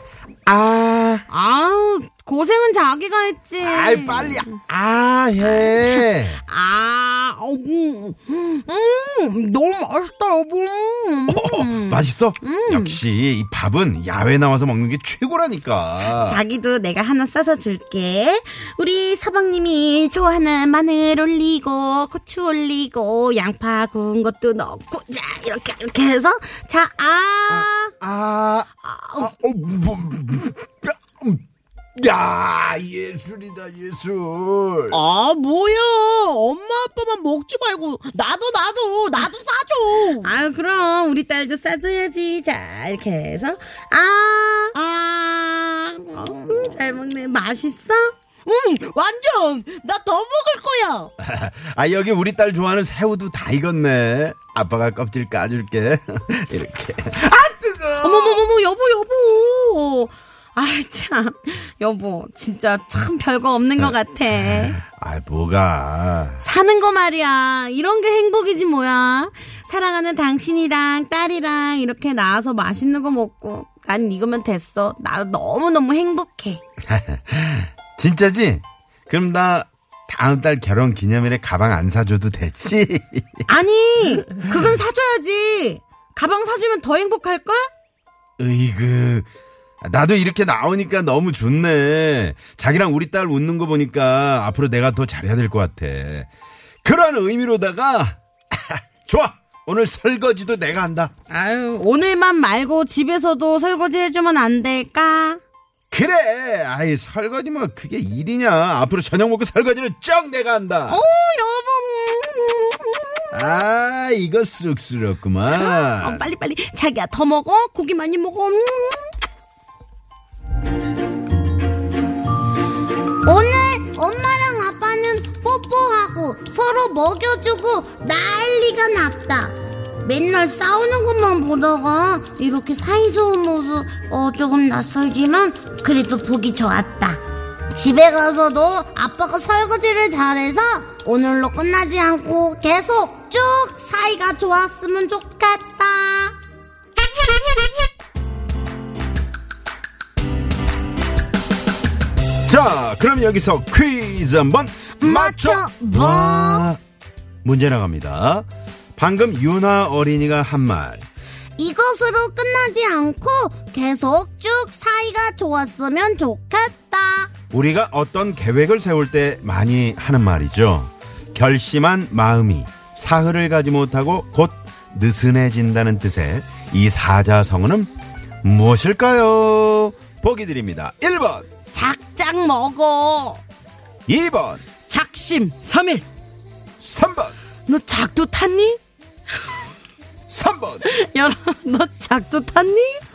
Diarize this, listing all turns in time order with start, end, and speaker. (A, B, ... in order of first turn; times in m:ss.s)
0:00.4-0:01.2 A
0:01.3-0:04.4 B
0:03.6-0:06.4 A
0:05.4-0:13.0 B
0:11.3-0:16.4 A
0:16.0-0:27.9 B
0:27.5-0:31.4 A
0:28.8-0:29.3 B
0:31.9-0:35.0 A
0:34.9-0:40.3 C
0:40.2-0:44.7 B
0:44.8-0:46.1 C
0:46.1-0:48.1 B
0:48.4-0:51.1 C
0:51.2-0:58.4 A
0:58.0-1:04.8 B
1:03.8-1:06.4 A
1:06.4-1:16.6 B
1:16.8-1:23.4 A
1:23.5-1:27.7 B
1:28.4-1:29.3 A
1:29.8-1:36.3 A
1:36.8-1:41.1 A
1:41.3-1:45.4 B
1:45.9-1:51.0 A
1:50.9-1:53.6 B
1:53.3-1:56.2 A
1:55.5-1:59.1 B
2:03.2-2:17.2 D
2:17.7-2:26.4 D
2:32.4-2:36.8 A
2:35.0-2:36.6 D
2:37.4-2:41.0 A
2:41.6-2:47.3 D
2:47.5-2:57.9 A
2:58.4-3:01.4 A
3:01.7-3:03.4 B
3:04.1-3:04.6 A
3:04.9-3:06.0 B
3:06.8-3:07.3 A
3:07.7-3:08.8 B
3:10.3-3:10.8 A
3:10.8-3:13.0 B